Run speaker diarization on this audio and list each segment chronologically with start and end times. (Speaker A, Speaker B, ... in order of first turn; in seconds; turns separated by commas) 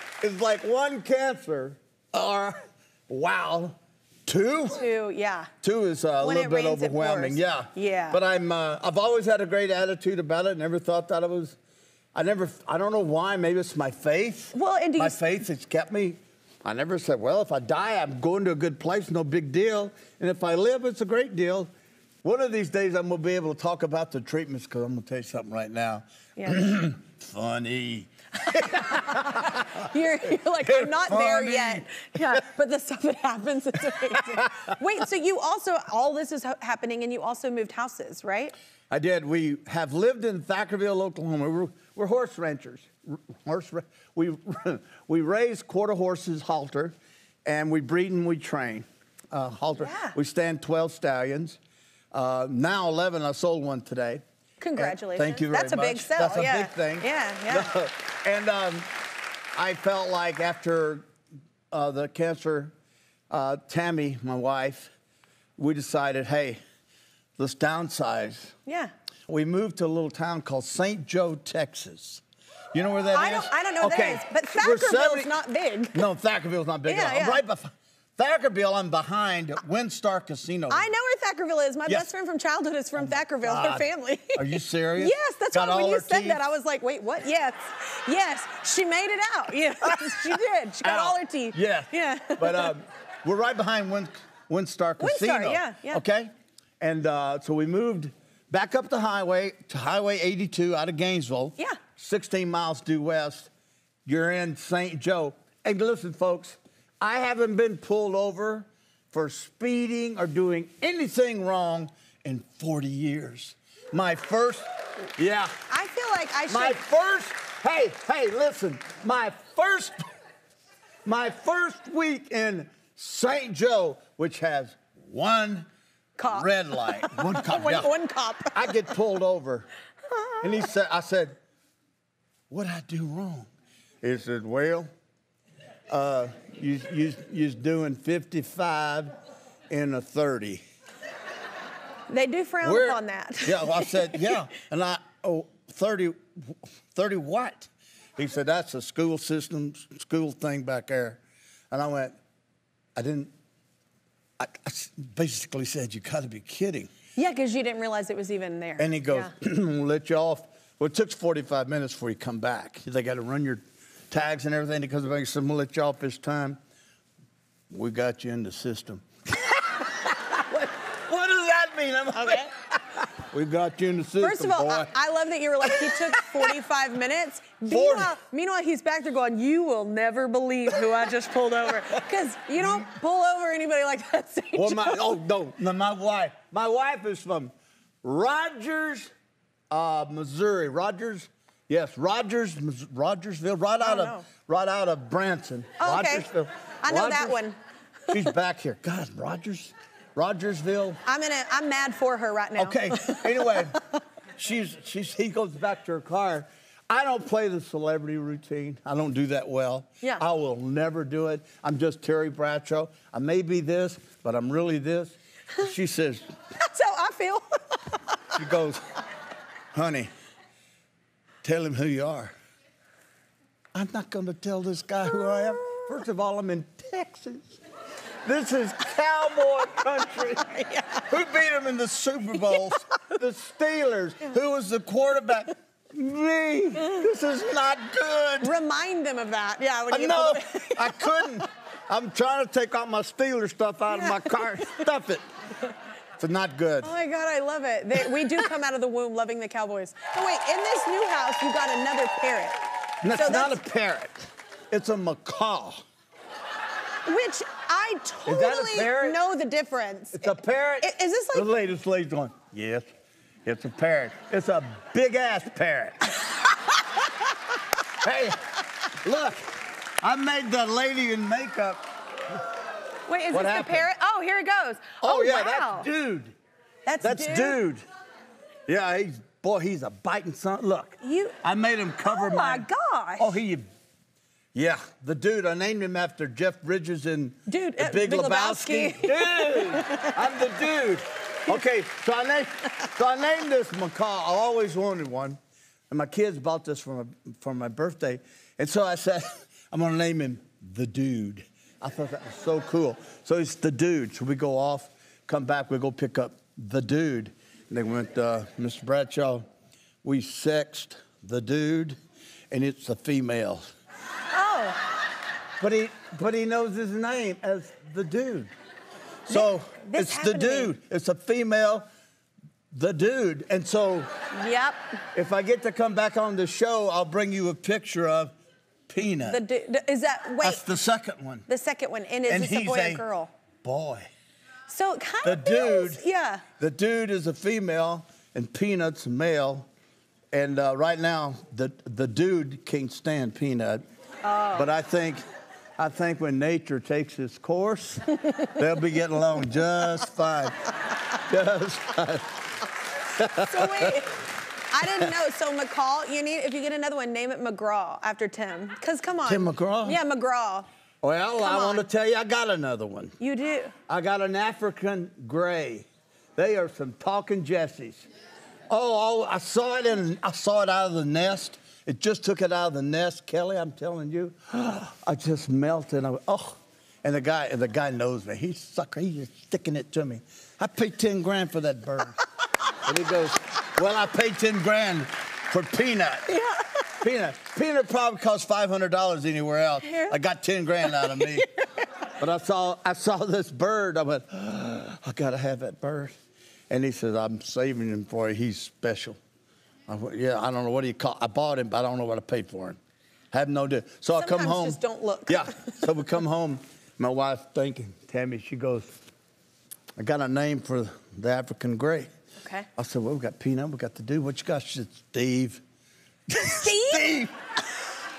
Speaker A: 0.2-4.8, Speaker B: 4.7-5.5, Speaker A: 5.6-11.6, Speaker B: 6.2-8.2, Speaker A: 12.1-21.7, Speaker B: 14.5-15.2, Speaker A: 22.2-29.8, Speaker B: 28.4-38.5, Speaker A: 30.6-32.0, Speaker A: 34.1-34.7, Speaker A: 38.9-51.6, Speaker B: 49.8-50.1, Speaker A: 52.1-54.2, Speaker B: 54.6-57.7, Speaker A: 54.8-58.9, Speaker A: 59.5-61.1, Speaker A: 61.7-62.7, Speaker A: 63.3-64.9, Speaker A: 65.6-66.6, Speaker A: 67.4-68.5, Speaker B: 68.7-68.9, Speaker A: 69.3-75.3, Speaker B: 73.1-76.0, Speaker A: 75.9-80.9, Speaker B: 76.8-77.4, Speaker B: 80.7-92.7, Speaker A: 83.0-86.4, Speaker A: 89.9-103.5, Speaker B: 95.0-96.0, Speaker A: 104.0-115.5, Speaker B: 115.7-116.8, Speaker A: 116.5-120.1, Speaker A: 121.0-125.7, Speaker B: 126.2-128.8, Speaker A: 126.2-127.9, Speaker A: 128.5-129.7, Speaker B: 130.1-130.5, Speaker A: 130.4-131.3, Speaker A: 132.5-133.5, Speaker A: 134.0-134.9, Speaker A: 135.9-139.1, Speaker A: 139.7-140.6, Speaker B: 142.1-144.3, Speaker A: 142.6-151.2, Speaker A: 151.7-152.1, Speaker A: 152.9-153.3, Speaker A: 154.4-156.9, Speaker B: 157.2-159.3, Speaker A: 158.8-166.6, Speaker A: 167.7-174.9, Speaker B: 174.2-185.0, Speaker A: 175.6-176.5, Speaker A: 177.7-178.1, Speaker A: 182.6-182.8, Speaker A: 184.5-189.1, Speaker A: 189.7-197.4, Speaker B: 193.8-194.2, Speaker B: 195.8-196.2, Speaker B: 196.8-197.6, Speaker A: 198.1-201.0, Speaker B: 201.0-203.7, Speaker A: 202.6-203.8, Speaker A: 204.4-216.3, Speaker B: 216.6-218.2, Speaker A: 218.3-218.9, Speaker A: 219.7-220.1, Speaker A: 221.4-222.3, Speaker A: 223.7-227.6, Speaker A: 228.2-238.5, Speaker B: 230.4-230.9, Speaker B: 232.5-232.7, Speaker B: 238.4-241.4, Speaker A: 239.9-245.2, Speaker B: 243.9-244.8, Speaker A: 246.2-246.9, Speaker B: 246.8-252.6, Speaker A: 253.0-255.8, Speaker B: 253.1-253.6, Speaker B: 257.0-261.5, Speaker A: 258.2-259.2, Speaker A: 260.1-262.9, Speaker A: 263.4-266.1, Speaker A: 268.0-271.8, Speaker B: 273.1-275.9, Speaker A: 273.3-273.9, Speaker A: 275.0-276.3, Speaker B: 276.9-277.6, Speaker A: 277.0-277.8, Speaker A: 278.7-282.6, Speaker B: 281.0-281.4, Speaker B: 282.0-283.4, Speaker A: 283.2-283.6, Speaker A: 284.5-295.4, Speaker B: 287.5-290.2, Speaker A: 295.9-309.4, Speaker A: 310.0-312.0, Speaker A: 312.5-313.7, Speaker B: 314.3-314.8, Speaker A: 315.6-318.5, Speaker A: 319.2-321.9, Speaker B: 319.3-320.7, Speaker A: 322.7-324.1, Speaker B: 324.3-324.8, Speaker A: 325.1-328.3, Speaker A: 328.9-329.4, Speaker B: 329.2-330.6, Speaker A: 330.4-331.4, Speaker B: 331.5-333.3, Speaker A: 332.3-333.0, Speaker A: 333.6-334.1, Speaker B: 334.7-336.4, Speaker A: 335.2-336.0, Speaker A: 336.6-339.7, Speaker A: 340.3-343.8, Speaker B: 344.2-344.7, Speaker A: 344.5-345.2, Speaker A: 345.8-350.7, Speaker A: 351.2-352.5, Speaker A: 353.1-353.9, Speaker B: 353.4-360.7, Speaker A: 354.8-355.1, Speaker A: 359.2-360.0, Speaker A: 361.0-363.1, Speaker B: 361.4-361.8, Speaker B: 363.2-363.7, Speaker A: 363.9-368.1, Speaker A: 368.7-382.2, Speaker A: 382.8-386.3, Speaker B: 386.3-386.6, Speaker A: 387.0-391.5, Speaker B: 389.8-390.1, Speaker B: 390.8-391.4, Speaker A: 392.2-396.1, Speaker A: 396.7-399.2, Speaker A: 399.9-402.8, Speaker A: 403.3-409.0, Speaker B: 404.1-405.8, Speaker A: 410.0-412.1, Speaker B: 412.4-412.7, Speaker A: 412.8-415.6, Speaker A: 416.3-417.3, Speaker B: 416.4-417.2